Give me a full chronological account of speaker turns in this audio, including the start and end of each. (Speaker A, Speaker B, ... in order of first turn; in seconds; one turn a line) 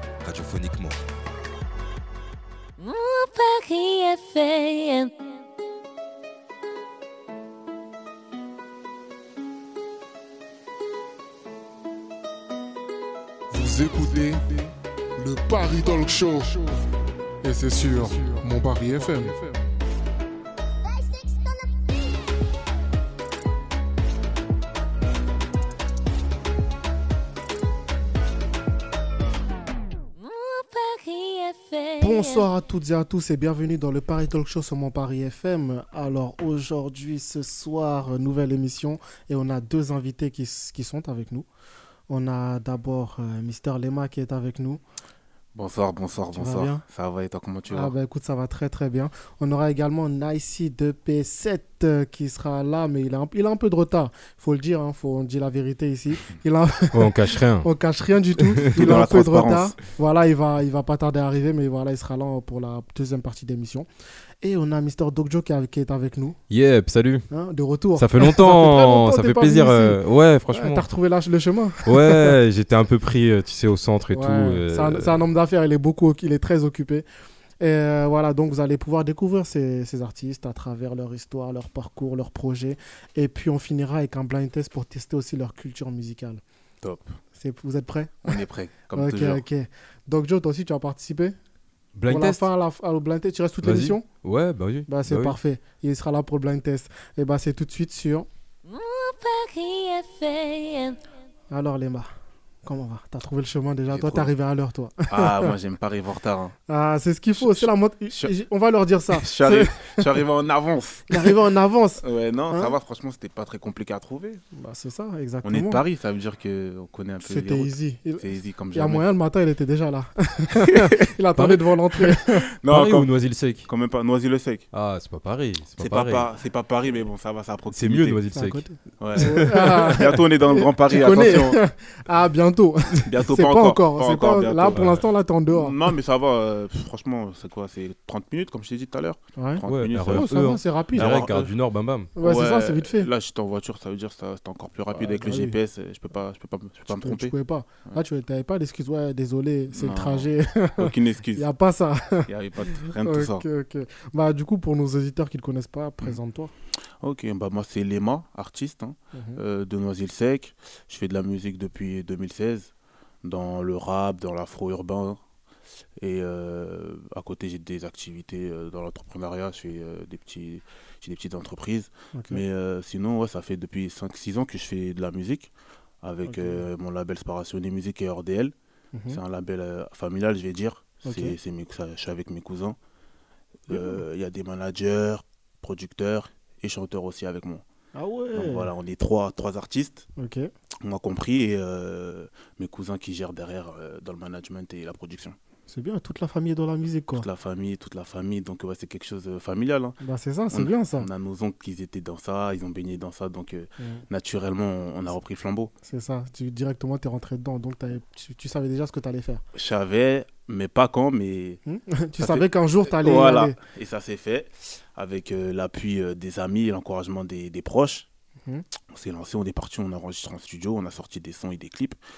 Speaker A: 0.2-1.0
Speaker B: 2.8-5.2
Speaker C: 13.5-16.9
Speaker C: 17.4-19.6
Speaker D: 18.0-19.4
Speaker B: 30.2-32.5
Speaker D: 32.0-41.5
Speaker D: 42.1-44.8
Speaker E: 45.5-47.9
Speaker D: 46.3-46.8
Speaker D: 47.7-63.9
Speaker A: 56.9-57.7
Speaker E: 58.7-59.8
Speaker D: 64.4-66.4
Speaker A: 66.5-67.3
Speaker D: 67.3-70.0
Speaker A: 67.9-70.9
Speaker D: 70.5-72.3
Speaker A: 71.8-75.2
Speaker D: 74.1-77.0
Speaker D: 77.6-86.4
Speaker E: 86.8-87.1
Speaker D: 87.3-88.4
Speaker E: 88.2-89.4
Speaker D: 88.9-91.3
Speaker A: 91.9-92.5
Speaker D: 92.1-94.0
Speaker A: 93.6-95.4
Speaker D: 94.9-98.3
Speaker B: 98.6-101.0
Speaker D: 101.5-102.1
Speaker D: 102.6-105.5
Speaker E: 103.9-104.3
Speaker E: 105.1-106.5
Speaker D: 106.7-110.1
Speaker E: 107.4-108.3
Speaker E: 109.1-111.3
Speaker D: 111.1-112.7
Speaker E: 112.0-114.4
Speaker D: 114.5-115.8
Speaker E: 115.4-119.1
Speaker D: 117.2-122.5
Speaker A: 121.3-121.6
Speaker E: 122.6-124.7
Speaker A: 122.7-123.7
Speaker A: 124.7-126.3
Speaker E: 125.8-128.2
Speaker A: 127.7-129.9
Speaker D: 128.3-135.8
Speaker E: 129.0-131.6
Speaker E: 133.1-140.3
Speaker D: 139.4-141.1
Speaker A: 139.7-142.1
Speaker E: 140.9-141.6
Speaker D: 142.2-143.1
Speaker E: 142.2-147.3
Speaker D: 144.9-145.6
Speaker D: 146.9-152.3
Speaker E: 149.8-150.3
Speaker E: 150.8-151.4
Speaker E: 152.3-153.4
Speaker D: 153.0-156.5
Speaker E: 157.0-162.7
Speaker D: 159.1-159.4
Speaker E: 163.2-165.2
Speaker E: 166.0-175.5
Speaker D: 172.2-172.4
Speaker E: 176.0-178.5
Speaker D: 176.2-176.6
Speaker E: 179.1-182.8
Speaker D: 181.0-181.3
Speaker E: 183.7-187.6
Speaker D: 183.7-184.0
Speaker D: 187.9-188.7
Speaker E: 188.3-190.1
Speaker D: 190.2-190.5
Speaker E: 190.8-195.3
Speaker D: 195.7-197.2
Speaker E: 197.2-200.0
Speaker D: 200.0-201.1
Speaker E: 200.5-205.7
Speaker D: 205.8-209.4
Speaker E: 209.5-211.6
Speaker D: 211.7-213.6
Speaker E: 212.2-218.1
Speaker E: 218.9-222.0